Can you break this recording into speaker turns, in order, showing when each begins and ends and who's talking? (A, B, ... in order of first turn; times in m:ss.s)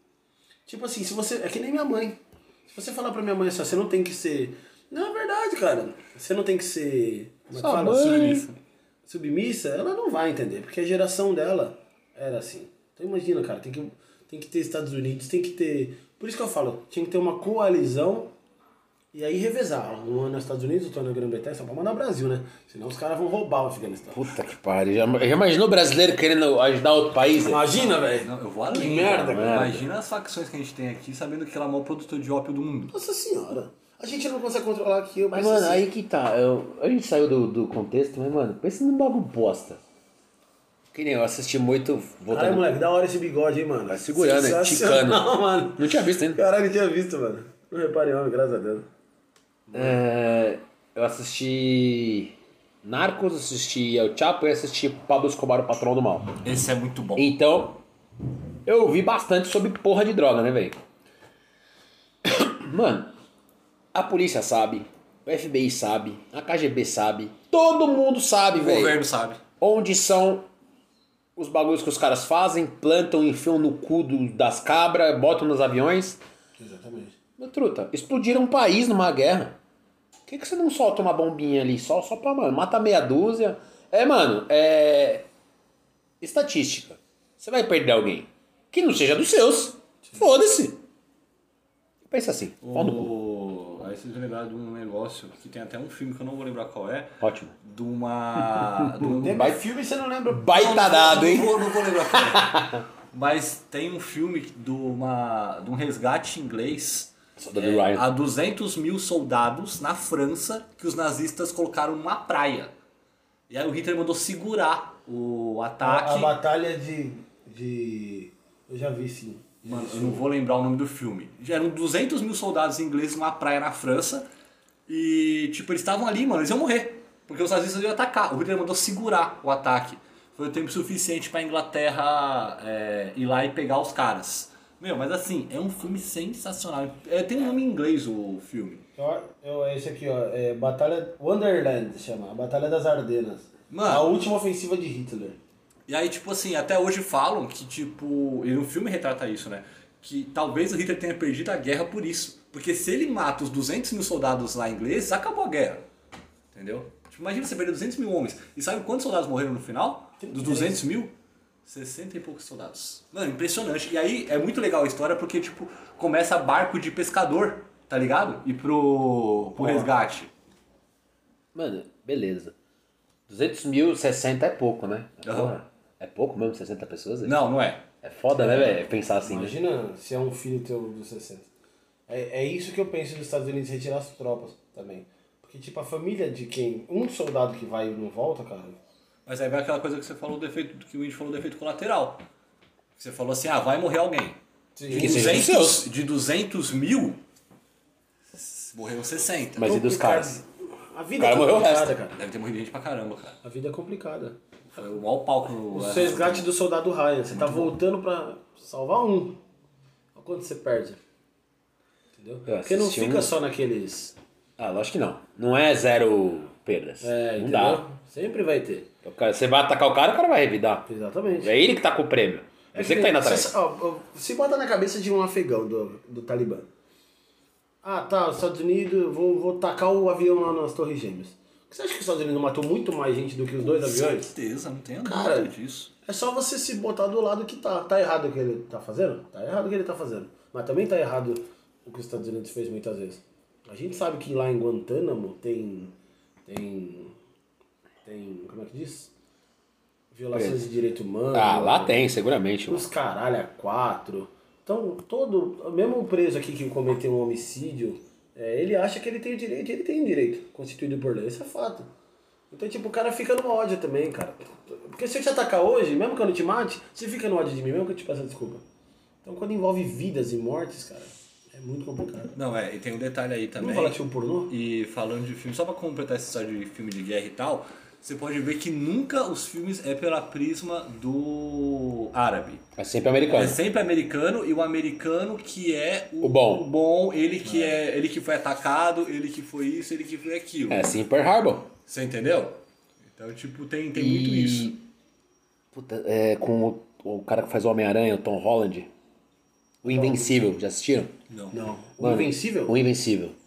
0:00.6-0:08.2 A
0:07.5-0:08.5 B
0:07.8-0:08.6 C
0:09.0-0:18.3 A
0:19.1-0:24.2 A
0:24.1-0:27.6 B
0:27.4-0:29.6 A
0:27.7-0:32.9 C
0:29.0-0:29.9 B
0:32.9-0:35.9 A
0:35.3-0:39.8 B
0:40.9-0:42.7 B
0:42.3-0:48.9 A
0:43.9-0:46.4 B
0:49.7-0:50.0 A
0:49.7-0:56.4 B
0:56.4-0:57.3 C
0:57.2-0:57.8 B
0:58.6-1:00.8 B
1:02.2-1:03.1 B
1:03.9-1:09.0 B
1:08.6-1:09.4 C
1:09.6-1:10.5 B
1:11.4-1:16.2 B
1:16.6-1:17.2 A
1:17.4-1:19.6 B
1:20.3-1:25.2 B
1:26.2-1:30.8 B
1:32.1-1:33.1 B
1:32.6-1:39.6 C
1:37.2-1:37.5 B
1:38.4-1:39.6 B
1:39.0-1:41.4 A
1:40.3-1:42.8 B
1:40.5-1:42.6 C
1:43.1-1:52.7 C
1:47.4-1:48.0 B
1:53.5-1:56.3 C
1:55.8-2:00.2 A
1:59.6-2:04.3 C
2:04.9-2:18.8 C
2:19.0-2:25.4 A
2:23.7-2:24.0 C
2:25.9-2:35.8 C
2:36.5-2:41.1 C
2:40.2-2:40.8 A
2:41.6-2:50.3 C
2:49.6-2:49.9 A
2:51.5-2:52.5 B
2:53.3-2:57.4 B
2:55.2-2:55.5 C
2:57.2-2:57.8 C
2:58.0-2:59.5 B
2:58.4-3:01.5 A
3:02.1-3:08.8 A
3:09.2-3:12.2 C
3:13.0-3:17.2 C
3:14.8-3:15.4 A
3:14.9-3:15.9 B
3:18.3-3:19.7 C
3:19.6-3:20.4 B
3:19.6-3:22.2 A
3:21.2-3:21.9 B
3:22.2-3:23.4 C
3:23.4-3:24.4 A
3:24.7-3:26.5 C
3:25.7-3:29.4 A
3:27.3-3:27.7 C
3:30.1-3:31.0 A
3:32.1-3:34.2 A
3:32.4-3:33.3 B
3:34.6-3:37.8 B
3:37.0-3:38.9 A
3:39.0-3:43.5 B
3:40.9-3:41.6 A
3:42.7-3:46.7 A
3:47.8-3:54.3 A
3:53.6-3:55.9 C
3:55.0-4:05.9 A
4:06.4-4:07.1 A
4:08.0-4:09.1 A
4:10.1-4:12.1 A
4:10.3-4:10.6 B
4:11.3-4:12.8 B
4:12.7-4:21.9 A
4:22.5-4:28.6 A
4:29.2-4:32.3 A
4:32.3-4:42.6 C
4:33.6-4:34.5 A
4:42.8-4:43.6 B
4:43.3-4:50.9 C
4:46.2-4:46.7 B
4:50.7-4:51.7 B
4:51.9-4:52.6 C
4:53.2-4:54.7 C
4:53.9-4:54.8 B
4:55.7-4:58.9 B
4:59.8-5:01.1 B
4:59.8-5:00.4 A
5:01.3-5:01.6 C
5:01.5-5:02.8 A
5:02.0-5:03.3 B